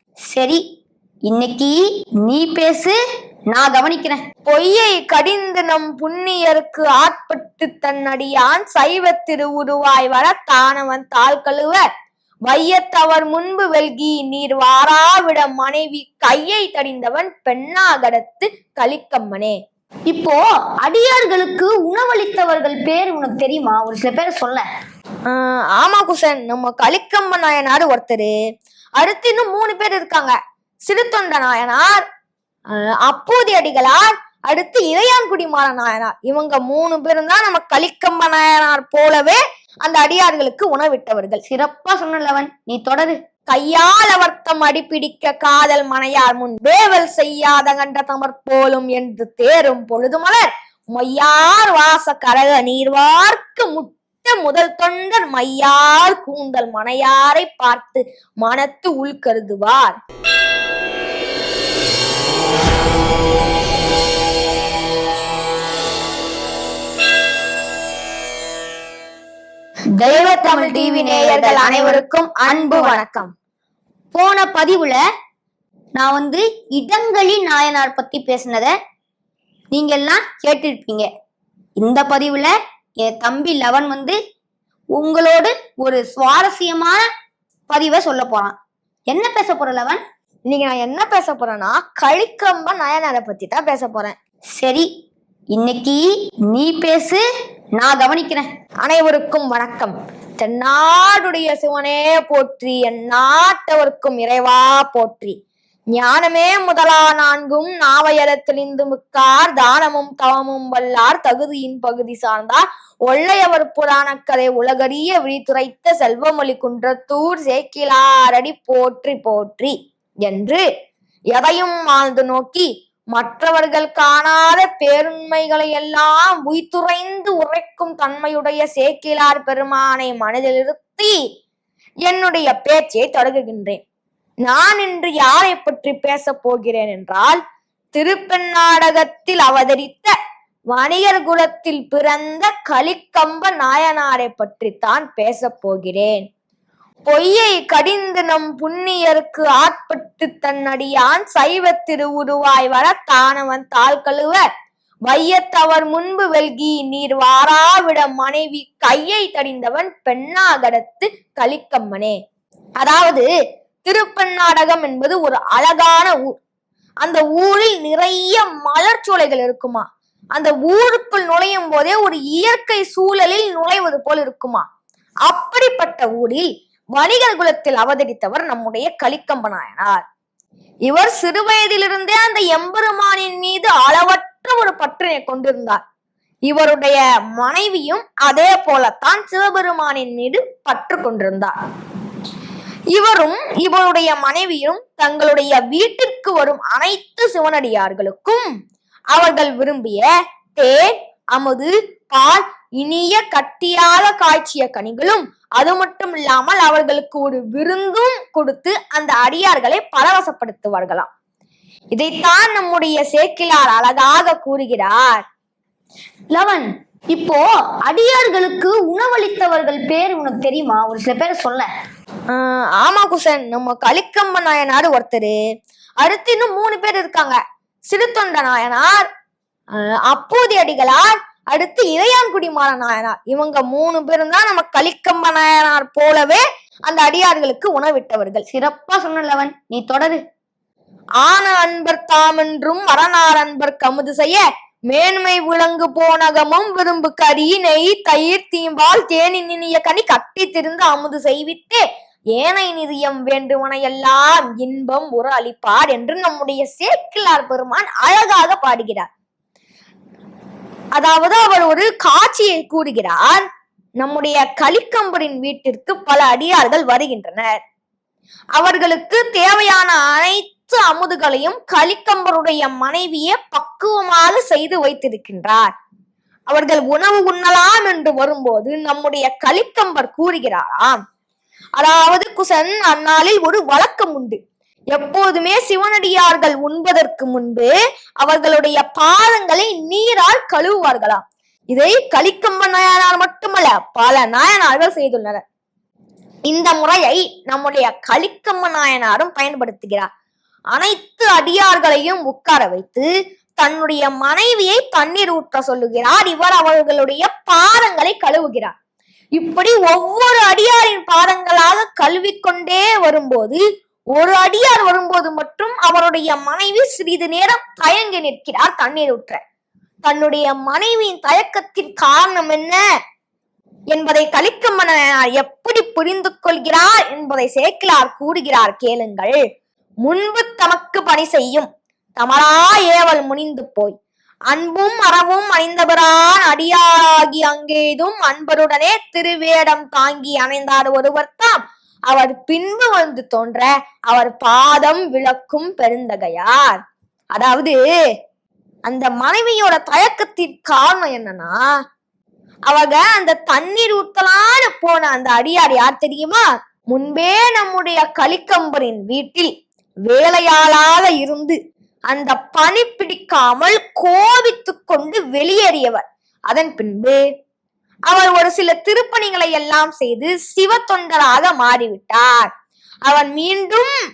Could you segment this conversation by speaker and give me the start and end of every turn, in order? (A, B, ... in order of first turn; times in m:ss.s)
0:00.3-0:00.6 A
0:01.3-0:02.9 A
0:03.5-0:04.2 A
0:04.4-0:11.8 B
0:12.5-0:19.6 B
0:20.1-0:24.6 A
0:25.3-0:28.3 B
0:29.0-0:30.3 B
0:30.8-0:32.0 B
0:32.7-0:41.4 B
0:41.4-0:43.2 A
0:43.5-1:00.0 B
1:10.0-1:13.0 A
1:10.1-1:13.3 B
1:14.1-1:15.0 A
1:16.0-1:18.7 A
1:19.7-1:21.1 A
1:21.8-1:24.2 A
1:25.0-1:27.0 A
1:27.7-1:28.5 A
1:29.1-1:30.0 A
1:30.5-1:34.1 B
1:34.6-1:34.9 A
1:35.5-1:37.2 A
1:37.8-1:38.4 A
1:38.8-1:45.4 B
1:45.9-2:00.6 B
2:01.3-2:11.1 B
2:12.0-2:13.8 B
2:14.4-2:17.4 B
2:17.9-2:20.1 B
2:20.7-2:26.2 B
2:27.1-2:34.4 B
2:35.1-2:42.2 B
2:42.8-2:43.2 B
2:43.8-2:46.4 B
2:47.0-2:54.6 B
2:55.3-3:00.0 B
3:00.9-3:05.8 B
3:06.5-3:11.5 B
3:12.9-3:18.4 B
3:19.1-3:31.1 B
3:31.9-3:35.2 B
3:36.3-3:41.7 A
3:42.3-3:45.3 B
3:46.0-3:49.0 B
3:50.1-3:58.4 B
3:58.5-4:00.2 A
4:01.2-4:11.8 B
4:12.3-4:19.1 B
4:21.0-4:23.4 B
4:24.0-4:27.6 B
4:28.6-4:35.7 B
4:36.5-4:41.0 B
4:41.8-4:44.4 B
4:44.9-4:55.4 B
4:56.5-5:00.1 B
5:00.7-5:03.1 B
5:03.6-5:08.7 B
5:09.4-5:13.6 B
5:14.2-5:19.4 B
5:20.0-5:22.8 B
5:23.9-5:29.4 B
5:30.0-5:34.0 B
5:34.5-5:41.6 B
5:42.1-5:46.8 B
5:47.3-5:47.8 B
5:48.8-5:51.6 B
5:52.7-5:59.5 B
6:00.1-6:01.6 B
6:02.1-6:07.2 B
6:08.1-6:12.5 B
6:13.1-6:13.9 B